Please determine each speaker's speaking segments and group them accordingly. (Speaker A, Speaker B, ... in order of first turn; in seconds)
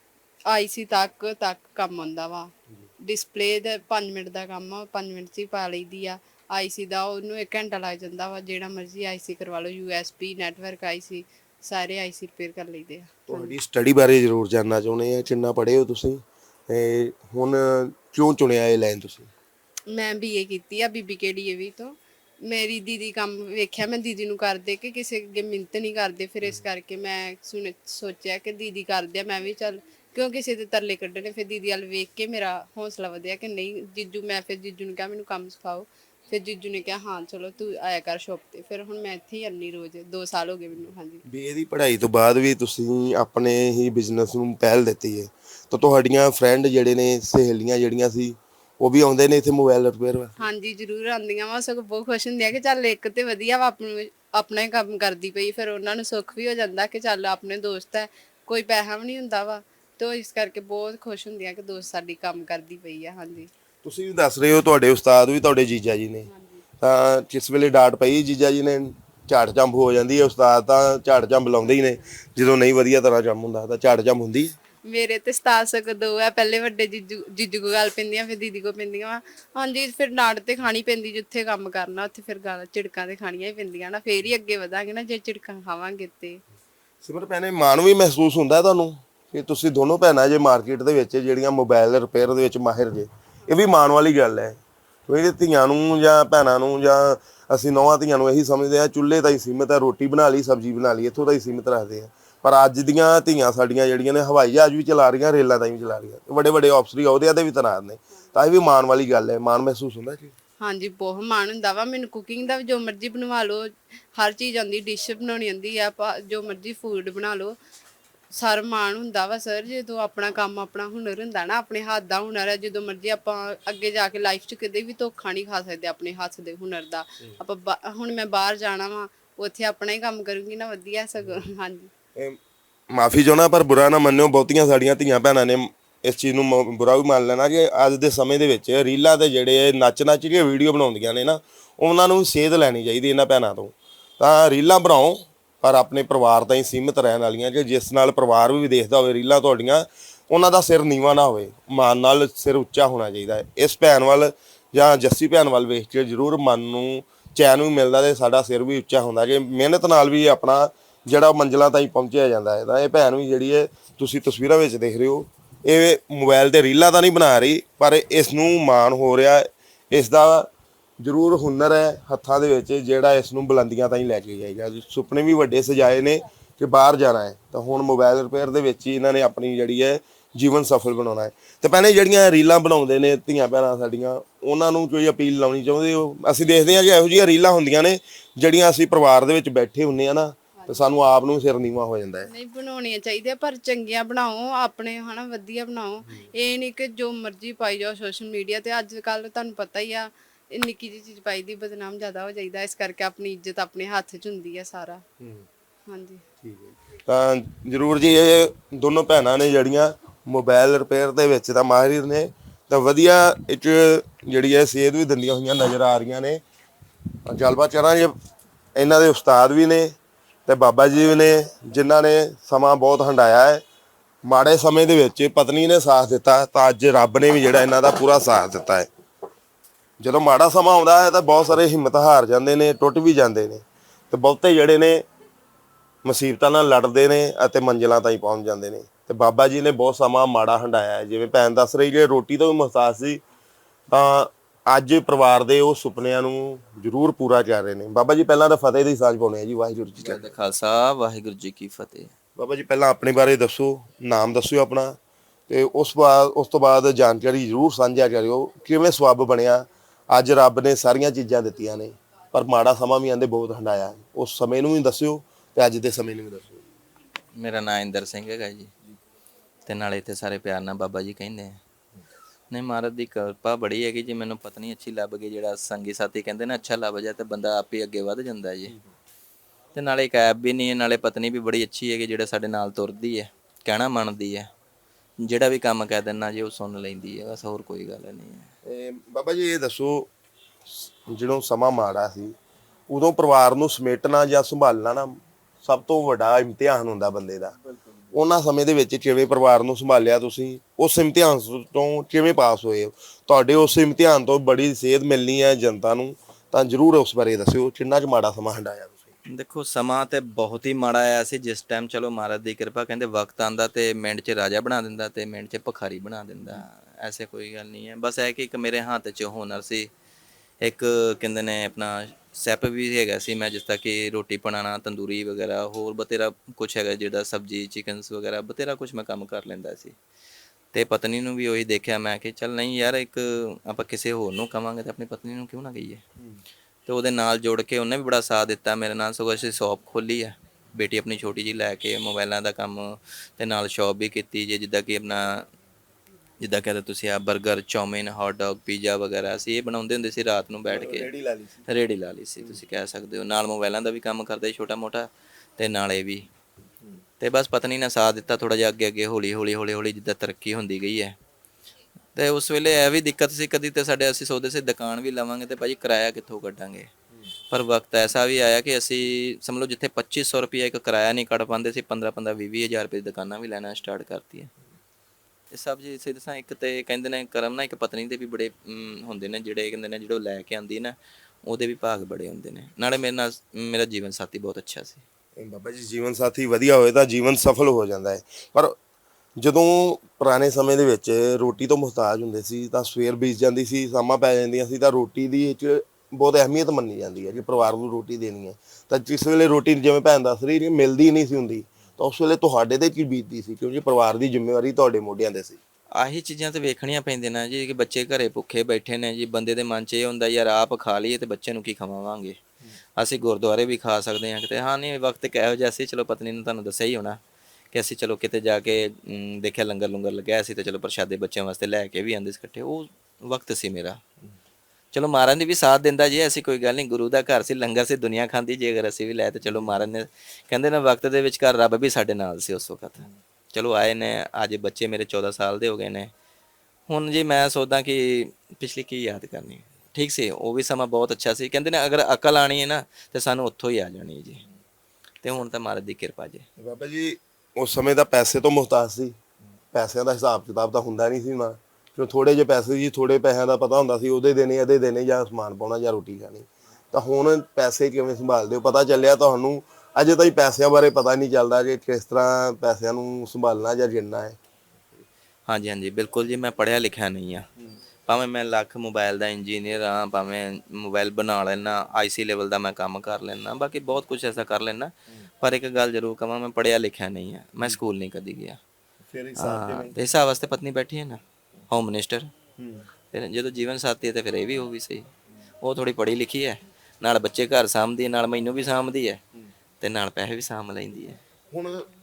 Speaker A: 0.5-13.5, 19.9-41.2, 50.4-63.5, 66.3-66.6, 74.9-86.4, 110.6-117.5, 118.3-131.9, 190.6-190.9, 192.2-205.0, 205.9-206.2
Speaker B: 13.3-19.3, 41.2-50.3, 63.8-66.3, 66.8-74.5, 87.0-110.3, 132.9-170.5, 171.0-192.3, 205.2-205.4, 206.4-216.4, 217.2-218.1, 218.8-219.9, 220.4-223.6, 224.2-228.9, 230.0-235.0, 236.0-243.2, 243.9-250.3, 252.4-255.0, 255.5-266.7, 288.6-290.1, 290.6-292.4, 292.9-297.6, 298.1-309.1, 350.7-351.7, 385.4-388.8, 389.4-405.6, 429.5-429.8, 446.6-449.2, 449.7-464.4, 479.1-479.9, 482.6-482.9, 491.5-491.9
Speaker C: 250.0-252.1, 267.4-268.7, 269.6-271.6, 272.5-278.7, 279.7-284.5, 285.2-288.5, 309.3-319.9, 320.6-329.9, 330.7-336.0, 336.9-345.5, 346.4-351.1, 351.7-356.2, 357.2-361.1, 362.1-366.9, 367.5-374.5, 375.5-385.0, 405.9-412.4, 413.0-417.2, 417.7-424.0, 424.9-436.1, 436.9-444.4, 445.2-446.4, 465.5-467.4, 468.1-478.6, 479.4-482.3, 483.1-485.1, 485.6-489.2, 489.8-491.2